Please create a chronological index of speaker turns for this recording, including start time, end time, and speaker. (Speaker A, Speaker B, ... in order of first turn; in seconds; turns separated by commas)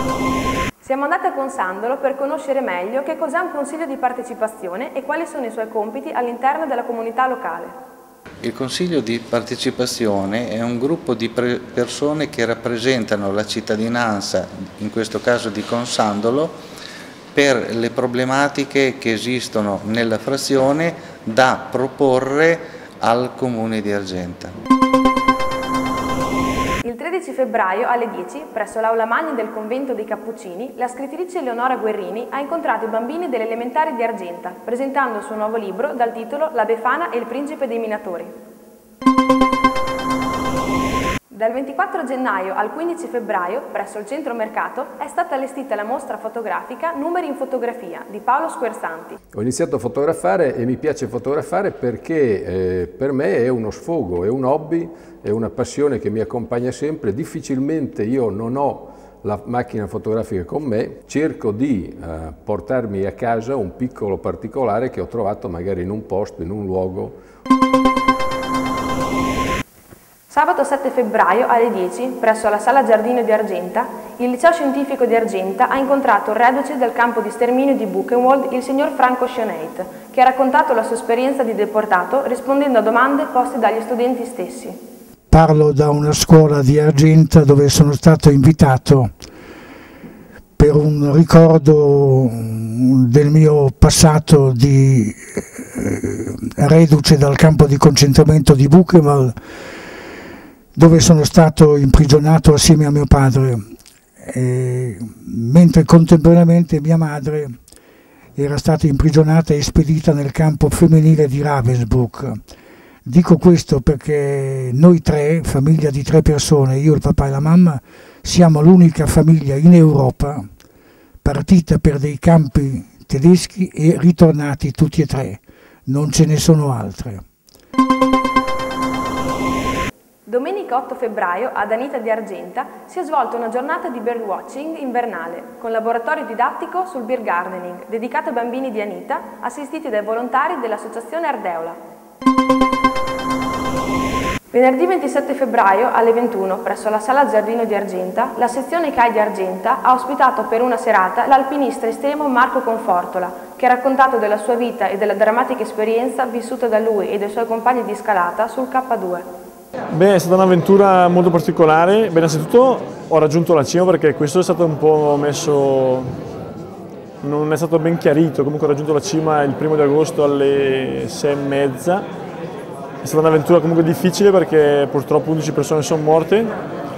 Speaker A: 0.8-7.7, Speaker B: 8.4-16.6, Speaker B: 17.3-24.5, Speaker A: 26.8-38.3, Speaker A: 41.3-49.2, Speaker C: 49.3-67.2, Speaker A: 70.3-84.8, Speaker D: 85.3-89.1, Speaker D: 90.6-99.3, Speaker D: 100.8-103.7, Speaker D: 104.2-107.6, Speaker D: 108.4-112.4, Speaker D: 113.1-120.5, Speaker D: 121.2-127.2, Speaker A: 130.3-141.8, Speaker A: 144.5-159.2, Speaker E: 159.9-166.1, Speaker E: 167.2-172.1, Speaker E: 173.0-176.5